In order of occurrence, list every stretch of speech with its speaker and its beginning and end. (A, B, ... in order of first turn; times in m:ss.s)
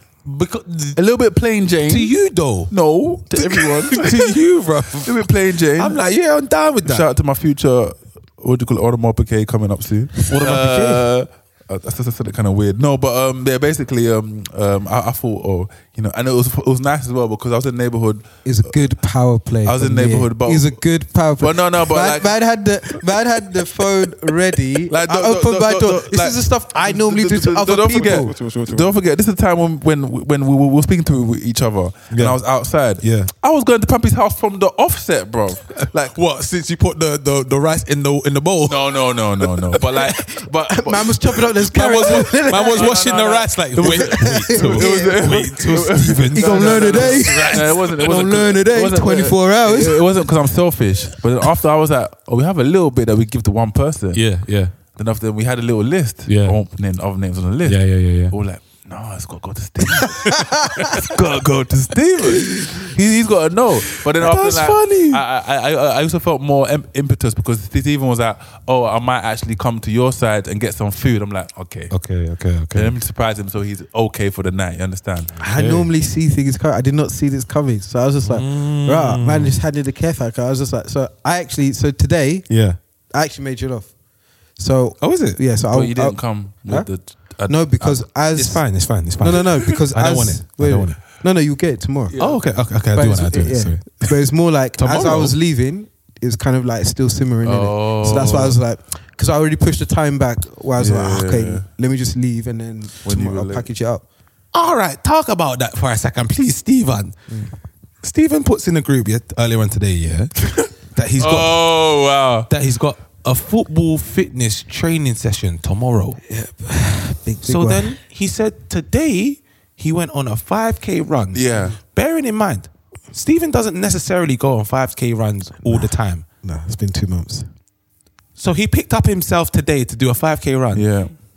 0:00.2-0:01.0 A
0:01.0-0:04.4 B
0:01.9-0:02.7 A
0:03.3-0:07.1 A
0:05.0-0:06.0 B
0:06.8-0:18.8 B
0:10.3-0:11.0 A
0:18.4-0:28.3 C
0:19.6-0:20.8 B
0:21.4-0:22.4 B
0:24.9-0:36.2 B
0:27.9-0:28.9 A
0:32.1-0:32.4 A
0:33.0-0:33.3 A
0:35.8-0:40.2 A
0:38.7-0:54.3 B
0:40.7-0:43.0 C
0:41.7-0:48.0 A
0:43.8-0:45.2 C
0:46.4-0:50.1 C
0:54.1-0:54.8 A
0:54.9-1:11.9 B
0:56.3-0:56.6 A
0:57.6-0:58.4 A
1:04.2-1:05.2 A
1:11.9-1:13.0 A
1:12.7-1:15.8 B
1:15.4-1:22.5 C
1:18.2-1:19.6 A
1:22.5-1:22.8 A
1:23.1-1:24.0 C
1:24.6-1:26.9 C
1:25.0-1:25.4 A
1:25.7-1:28.1 B
1:27.4-1:32.2 C
1:28.4-1:31.0 A
1:32.1-1:32.6 B
1:32.2-1:34.2 A
1:32.9-1:44.0 C
1:34.8-1:35.4 A
1:37.4-1:38.6 B
1:40.8-1:41.7 B
1:43.0-1:43.7 B
1:44.5-1:47.2 A
1:48.0-1:51.8 A
1:51.2-1:52.5 B
1:52.5-1:56.2 A
1:56.3-1:58.0 C
1:57.4-2:06.2 A
2:01.3-2:01.8 B
2:05.6-2:05.9 C
2:06.4-2:07.5 C
2:08.4-2:11.1 A
2:10.7-2:11.1 B